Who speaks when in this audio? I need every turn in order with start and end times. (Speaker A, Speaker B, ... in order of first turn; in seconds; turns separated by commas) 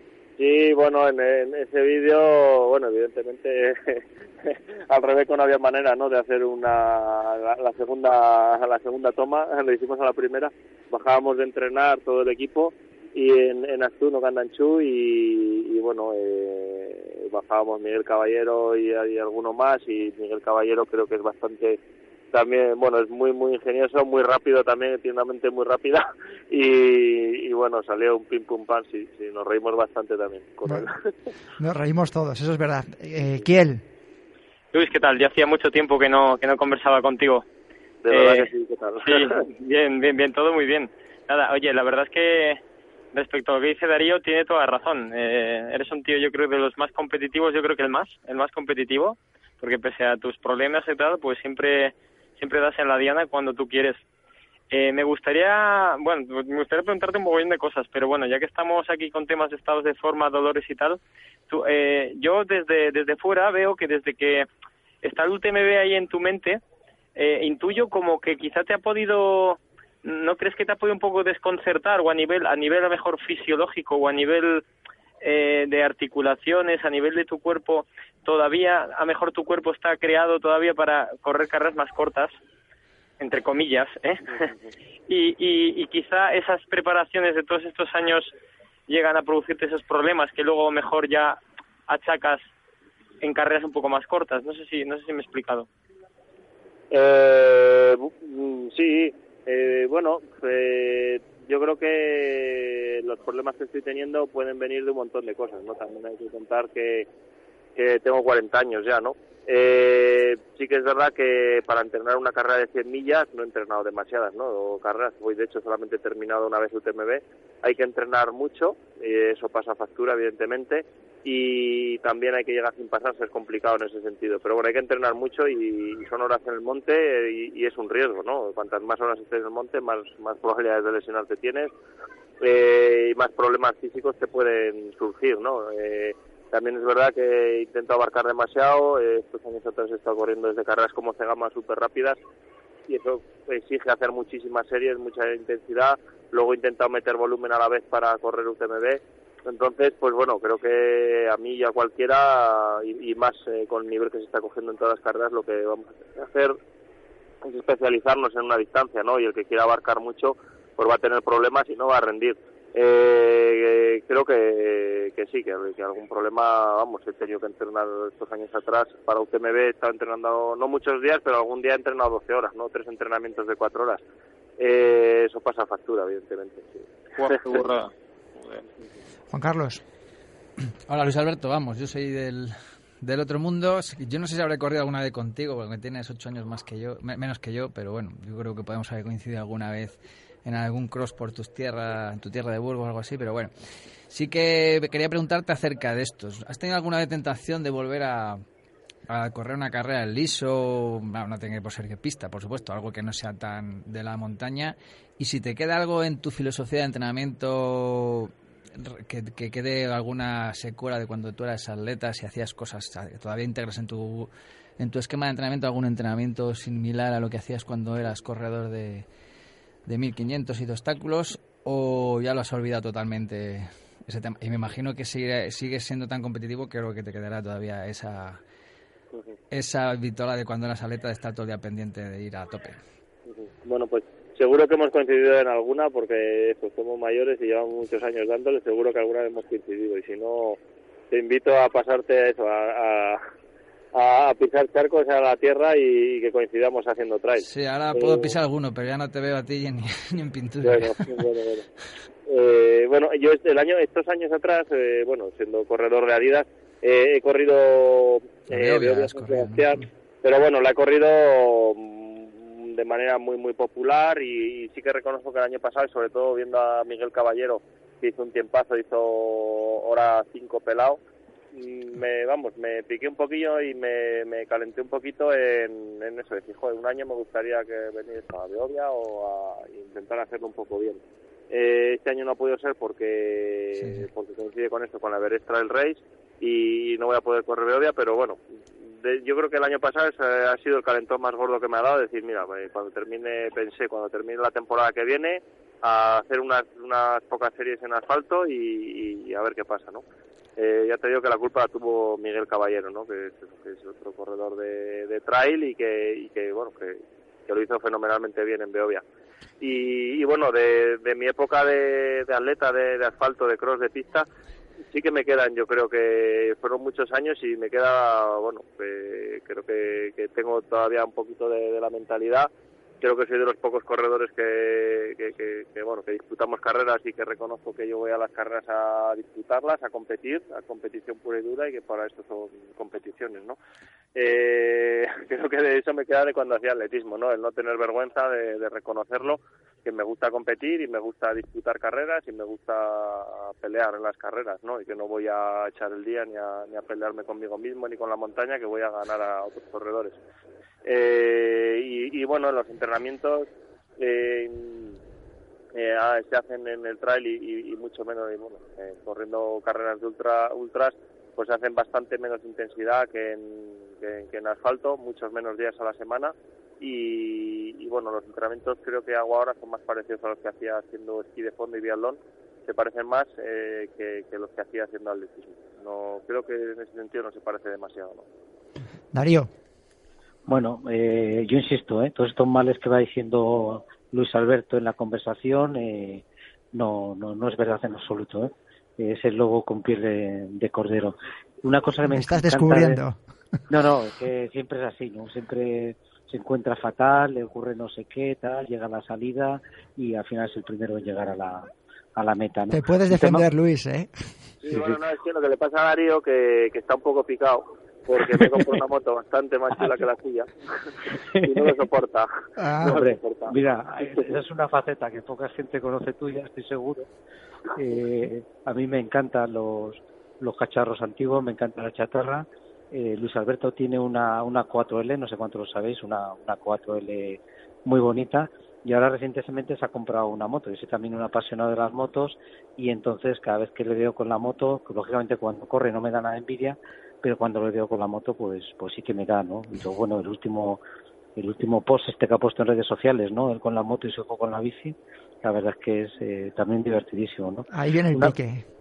Speaker A: 0.4-21.8, Speaker A: 22.3-31.1, Speaker B: 31.6-33.8, Speaker C: 34.7-37.5, Speaker A: 38.0-39.4, Speaker C: 38.1-38.5, Speaker C: 39.0-42.6, Speaker C: 43.1-54.0, Speaker C: 54.7-64.5, Speaker C: 65.0-66.6, Speaker C: 67.2-74.6, Speaker C: 75.2-82.3, Speaker C: 83.2-84.5, Speaker C: 85.1-88.3, Speaker C: 88.9-92.5, Speaker C: 93.2-95.7, Speaker A: 96.9-107.1, Speaker A: 107.8-131.7, Speaker A: 132.4-142.2, Speaker A: 142.9-156.6, Speaker A: 157.4-174.0, Speaker A: 174.6-176.8, Speaker C: 177.2-178.7, Speaker B: 179.3-179.8, Speaker D: 180.9-193.5, Speaker D: 194.1-198.4, Speaker D: 199.1-219.1, Speaker D: 219.9-228.4, Speaker D: 229.5-232.8, Speaker A: 233.3-240.6, Speaker A: 241.1-243.2, Speaker A: 243.9-248.3, Speaker D: 247.4-251.1, Speaker A: 250.6-251.7, Speaker A: 252.3-271.0, Speaker D: 258.5-259.7, Speaker A: 271.5-288.4, Speaker D: 283.8-284.1, Speaker A: 288.9-300.0, Speaker A: 300.6-309.0, Speaker A: 309.6-314.3, Speaker A: 314.9-322.5, Speaker A: 323.0-333.6, Speaker A: 334.1-350.2, Speaker A: 350.9-353.5, Speaker A: 354.0-355.0, Speaker A: 355.8-378.2, Speaker B: 379.1-379.5, Speaker E: 380.5-393.0, Speaker B: 392.1-393.2, Speaker E: 393.7-403.5, Speaker B: 402.7-404.1, Speaker A: 404.6-413.6, Speaker E: 404.7-405.0, Speaker E: 408.2-408.7, Speaker E: 411.1-411.7, Speaker B: 412.6-413.0, Speaker E: 412.8-417.1, Speaker E: 417.7-440.8, Speaker E: 441.4-448.4, Speaker B: 447.7-448.6